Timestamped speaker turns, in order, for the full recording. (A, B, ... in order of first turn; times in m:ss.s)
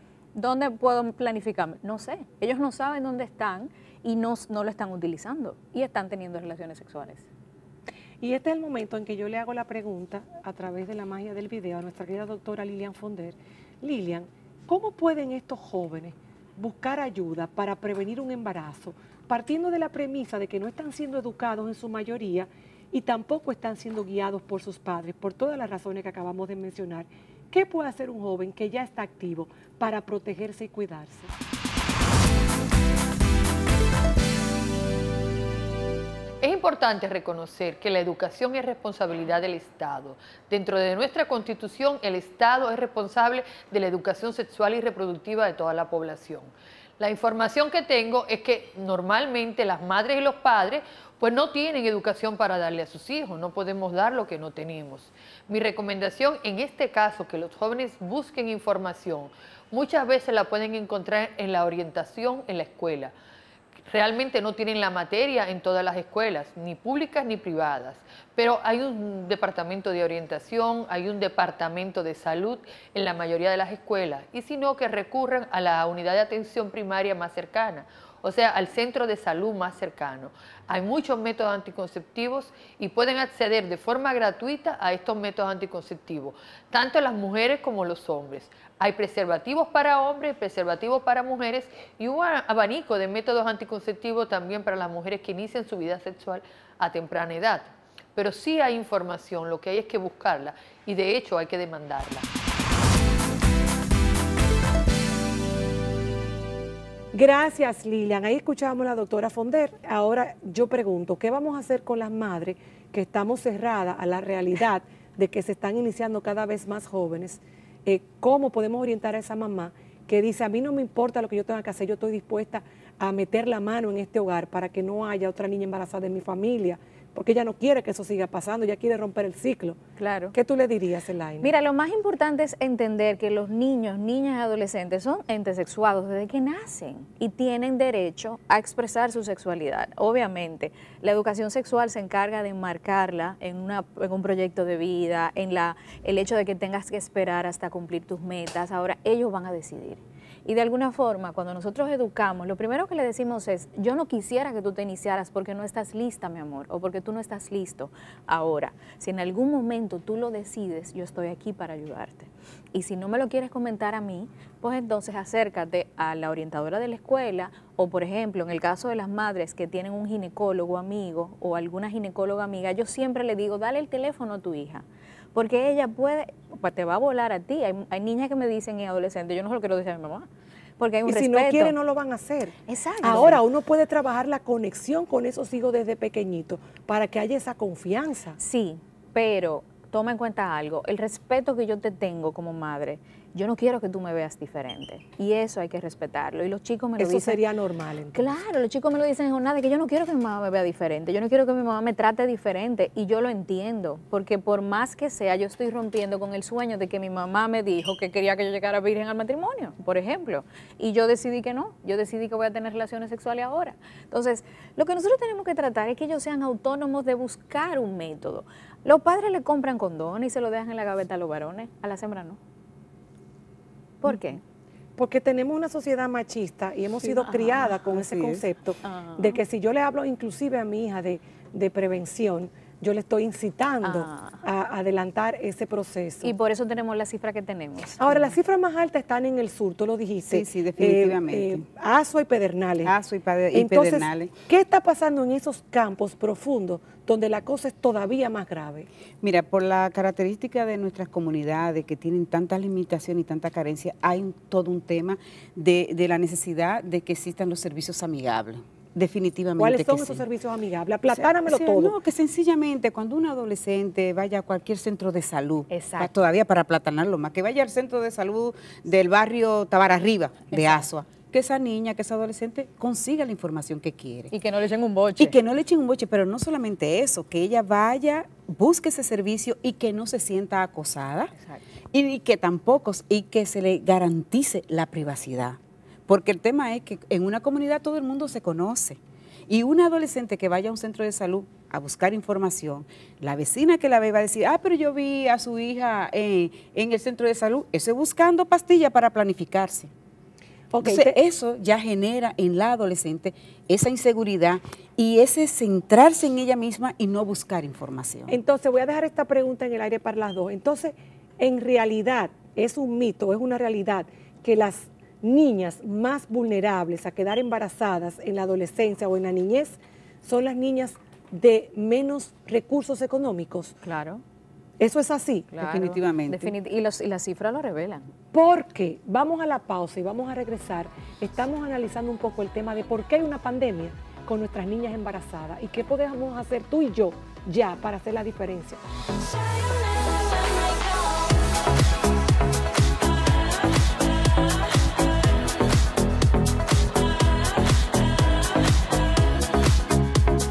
0:00.3-0:07.3 A
0:08.2-0:31.3 B
0:36.4-1:03.1 C
1:03.9-1:42.2 C
1:47.1-2:09.8 B
2:10.0-2:10.3 A
2:10.3-2:11.5 B
2:11.4-3:00.3 A
3:00.8-3:01.7 A
3:01.0-3:08.4 B
3:02.7-3:03.4 A
3:08.4-3:17.4 A
3:17.0-3:18.3 B
3:18.1-3:42.4 A
3:44.0-3:44.4 A
3:45.0-3:56.3 B
3:47.2-3:47.7 A
3:47.8-3:48.4 D
3:48.8-3:49.4 A
3:53.8-3:54.4 A
3:56.2-3:58.4 A
3:58.0-4:02.9 B
4:00.2-4:01.6 D
4:02.8-4:04.3 D
4:03.5-4:08.9 B
4:09.2-4:20.2 D
4:19.6-4:21.9 B
4:21.1-4:34.3 D
4:25.7-4:26.1 A
4:30.5-4:30.9 A
4:34.3-4:35.4 A
4:35.2-4:41.3 D
4:41.3-4:41.6 A
4:41.9-4:59.9 D
5:00.7-5:01.2 B
5:00.8-5:08.3 D
5:08.3-5:23.7 B
5:23.8-5:24.2 A
5:24.8-5:25.5 B
5:25.5-5:28.1 A
5:25.6-5:26.5 D
5:28.3-5:38.8 B